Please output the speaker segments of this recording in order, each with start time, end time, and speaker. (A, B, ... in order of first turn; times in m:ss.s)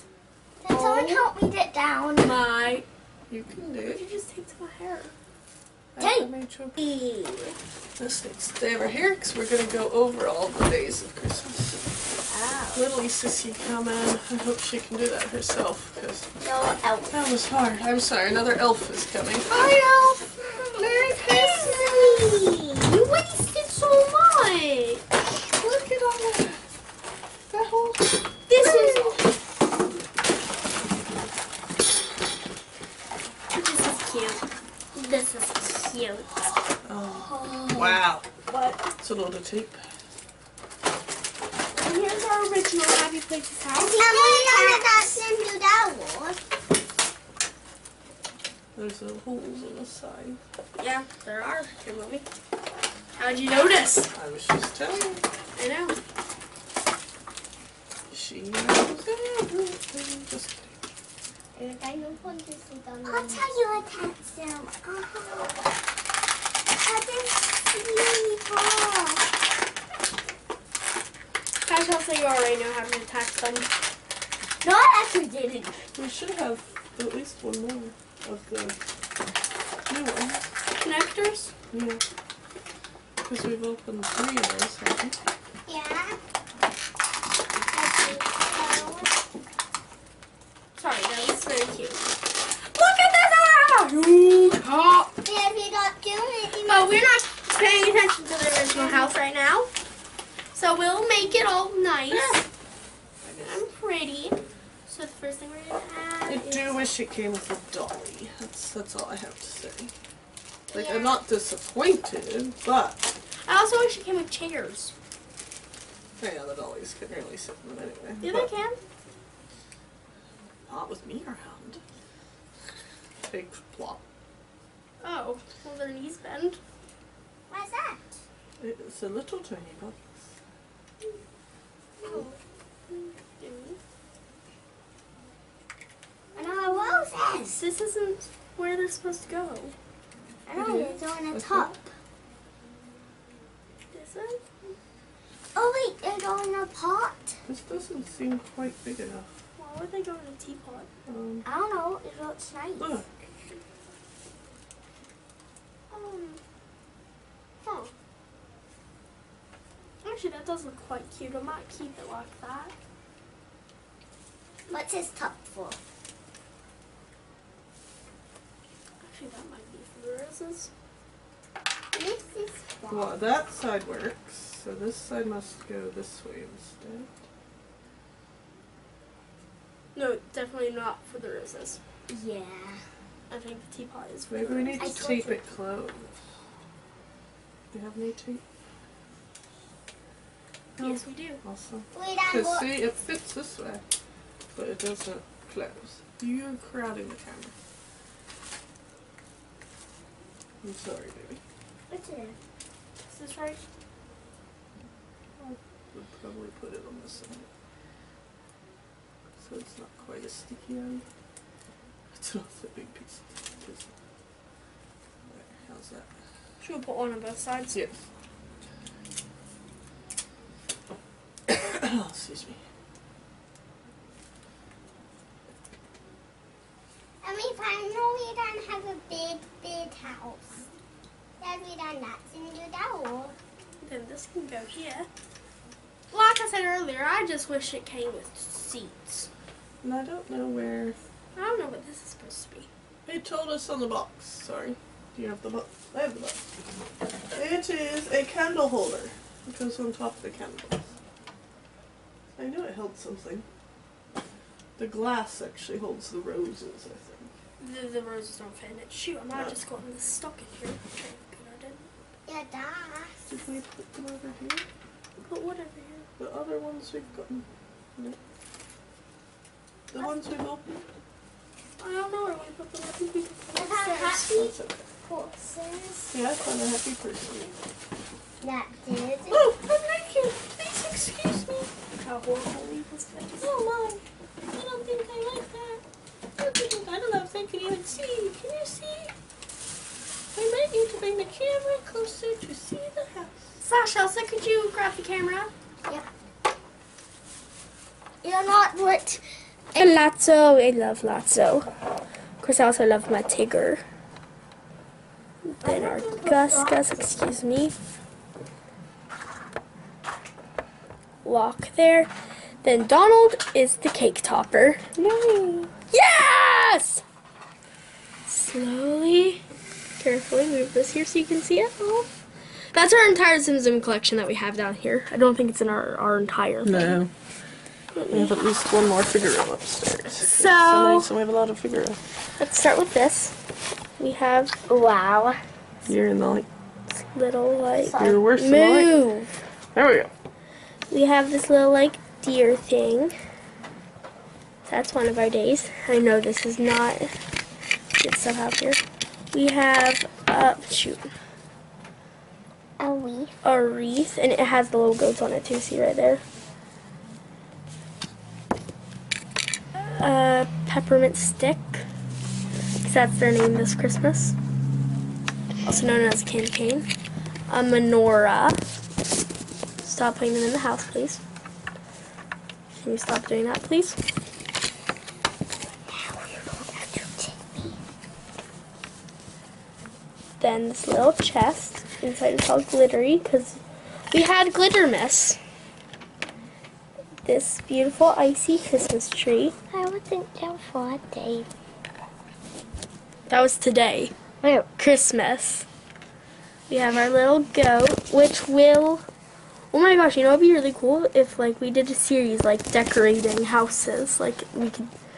0:00.6-0:02.4 A
0:00.7-0:01.3 B
0:02.2-0:02.8 B
0:03.3-0:04.0 C
0:03.8-0:05.1 B
0:05.9-0:06.8 C
0:06.0-0:07.6 A
0:08.0-0:11.8 C
0:12.3-0:12.8 A
0:12.7-0:16.3 C
0:16.4-0:17.2 A
0:17.1-0:19.6 C
0:19.5-0:25.0 B
0:20.8-0:22.2 C
0:25.4-0:26.6 C
0:27.5-0:28.1 C
0:28.5-0:29.3 B
0:28.6-0:29.2 A
0:33.5-0:36.5 B
0:36.8-0:38.2 C
0:37.2-0:38.0 A
0:38.5-0:38.8 B
0:39.0-0:39.8 C
0:41.7-0:45.1 B
0:43.7-0:46.4 A
0:48.7-0:50.4 C
0:50.8-0:52.2 B
0:53.2-0:54.1 B
0:54.1-0:55.2 C
0:55.5-0:56.0 B
0:58.1-1:00.8 C
1:01.5-1:05.5 A
1:03.1-1:03.5 B
1:06.8-1:09.2 A
1:11.6-1:13.7 B
1:14.6-1:15.8 A
1:15.9-1:18.8 C
1:19.9-1:20.4 C
1:20.8-1:21.5 B
1:21.7-1:22.0 C
1:23.2-1:25.2 C
1:25.6-1:26.2 A
1:27.7-1:29.1 A
1:30.8-1:35.1 B
1:35.2-1:37.2 A
1:36.6-1:39.7 B
1:38.7-1:39.1 A
1:40.5-1:42.4 B
1:42.1-1:42.4 C
1:43.2-1:43.6 C
1:43.4-1:46.8 B
1:46.3-1:49.9 C
1:50.7-1:53.0 C
1:50.7-1:51.0 B
1:53.4-1:54.9 B
1:56.2-1:58.5 C
1:58.2-1:58.8 B
2:00.6-2:01.8 C
2:03.2-2:04.0 C
2:05.0-2:06.6 B
2:07.5-2:08.2 A
2:08.6-2:10.1 C
2:12.0-2:12.4 A
2:12.9-2:13.8 B
2:16.3-2:17.6 A
2:16.4-2:16.8 B
2:17.4-2:19.7 B
2:20.5-2:21.0 B
2:20.5-2:21.9 A
2:20.6-2:21.7 C
2:23.9-2:24.4 B
2:25.5-2:27.4 A
2:27.5-2:29.3 C
2:29.6-2:30.9 B
2:31.1-2:31.4 C
2:31.4-2:33.0 A
2:32.8-2:33.1 C
2:35.9-2:36.4 B
2:37.6-2:37.9 B
2:40.0-2:42.7 B
2:44.7-2:45.8 A
2:49.0-2:50.7 B
2:51.9-2:53.1 A
2:52.9-2:57.1 C
2:59.9-3:01.8 B
3:02.1-3:02.8 A
3:03.3-3:05.3 B
3:04.3-3:06.2 C
3:04.8-3:05.4 A
3:07.7-3:08.4 C
3:10.8-3:11.4 B
3:10.8-3:13.8 C
3:11.9-3:12.7 A
3:14.5-3:17.5 C
3:20.6-3:21.4 C
3:21.9-3:22.4 A
3:23.0-3:23.6 B
3:25.4-3:27.5 C
3:29.4-3:31.0 C
3:32.1-3:33.9 C
3:35.3-3:36.1 C
3:36.6-3:37.8 B
3:37.7-3:38.0 C
3:41.5-3:42.6 C
3:47.2-3:50.6 A
3:51.4-3:53.3 A
3:53.8-3:55.1 B
3:56.1-3:59.3 B
3:59.8-4:01.0 C
4:01.3-4:02.7 B
4:03.0-4:06.4 C
4:07.3-4:10.9 C
4:12.4-4:13.4 C
4:14.8-4:17.3 C
4:17.6-4:21.8 B
4:22.2-4:23.3 A
4:23.2-4:24.6 C
4:25.2-4:26.1 B
4:26.2-4:27.4 C
4:29.9-4:30.6 C
4:31.8-4:34.5 B
4:33.5-4:34.5 A
4:34.3-4:34.8 C
4:35.0-4:36.1 A
4:36.1-4:37.5 C
4:38.4-4:39.4 A
4:39.3-4:41.7 C
4:41.9-4:43.5 B
4:43.4-4:44.0 C
4:44.5-4:45.8 C
4:46.4-4:49.1 C
4:50.3-4:53.4 C
4:53.6-4:55.5 B
4:58.2-4:59.2 A
4:59.8-5:01.7 B
5:02.4-5:03.8 B
5:05.4-5:07.7 B
5:05.6-5:07.2 A
5:11.2-5:12.1 B
5:12.6-5:14.8 B
5:15.0-5:15.7 A
5:15.9-5:17.0 B
5:18.2-5:19.4 B
5:20.0-5:22.0 B
5:22.7-5:27.0 B
5:26.6-5:27.1 C
5:27.9-5:28.3 B
5:28.1-5:32.0 C
5:30.2-5:31.1 B
5:32.4-5:33.3 B
5:34.0-5:34.5 B
5:34.7-5:35.4 A
5:35.8-5:36.5 C
5:36.9-5:39.3 B
5:37.8-5:38.2 A
5:37.9-5:38.9 C
5:39.7-5:40.1 C
5:40.9-5:43.1 B
5:44.6-5:47.1 B
5:48.0-5:48.8 B
5:49.3-5:51.1 B
5:52.8-5:53.4 A
5:53.4-5:56.2 B
5:59.7-6:01.8 B
6:02.8-6:04.4 B
6:05.6-6:06.9 B
6:07.5-6:08.6 B
6:09.8-6:11.2 B
6:12.7-6:14.0 B
6:15.9-6:17.8 A
6:20.4-6:23.6 B
6:24.1-6:25.4 B
6:27.2-6:29.5 B
6:29.7-6:31.5 A
6:33.3-6:34.1 B
6:34.4-6:34.7 A
6:34.7-6:35.6 B
6:36.7-6:39.0 B
6:39.7-6:44.9 B